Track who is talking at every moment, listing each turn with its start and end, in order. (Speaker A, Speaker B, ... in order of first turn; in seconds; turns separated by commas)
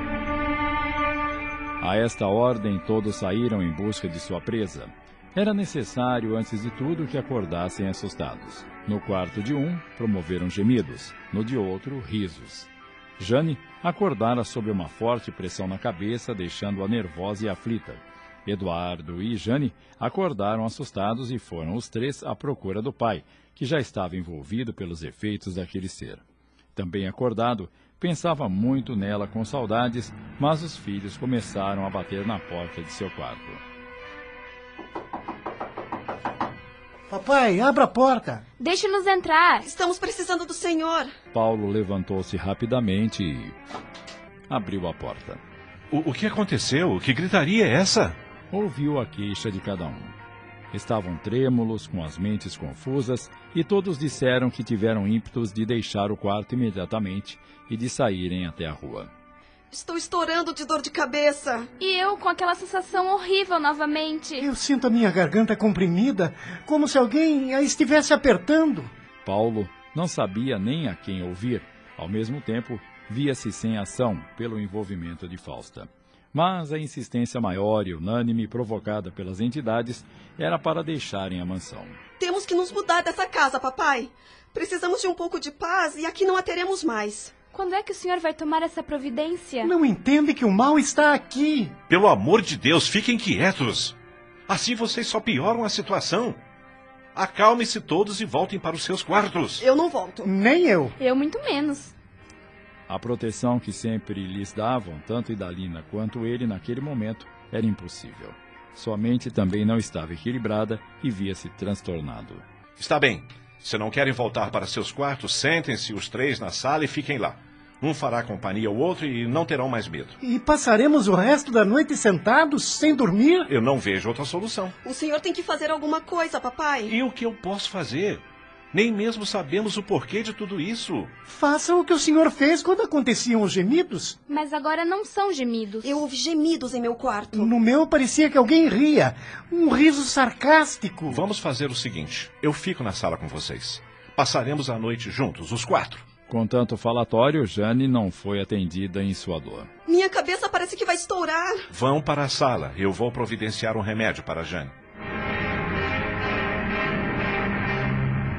Speaker A: 1.8-26.2, Speaker A: 26.8-33.6, Speaker B: 37.1-38.4, Speaker C: 38.6-39.7, Speaker D: 39.7-41.1, Speaker A: 41.3-43.5, Speaker A: 44.5-45.4, Speaker E: 45.9-48.2, Speaker A: 48.5-50.2, Speaker A: 50.7-59.1, Speaker D: 59.7-61.7, Speaker C: 61.8-64.5, Speaker B: 64.4-68.9, Speaker A: 69.2-82.0, Speaker D: 82.2-87.3, Speaker C: 87.5-89.7, Speaker B: 89.6-91.7, Speaker E: 91.9-94.0, Speaker E: 94.5-96.4, Speaker E: 97.2-99.7, Speaker D: 99.6-100.2, Speaker B: 100.2-101.0, Speaker C: 101.0-101.9, Speaker A: 102.9-112.4, Speaker E: 112.8-120.2, Speaker B: 120.2-123.5, Speaker E: 123.5-124.8, Speaker D: 124.8-126.9, Speaker E: 126.9-131.1, Speaker B: 131.3-134.2, Speaker C: 134.3-136.0, Speaker D: 135.8-137.5, Speaker B: 137.3-141.2, Speaker E: 141.1-146.0, Speaker A: 146.3-149.7, Speaker D: 149.9-151.6, Speaker E: 151.7-154.7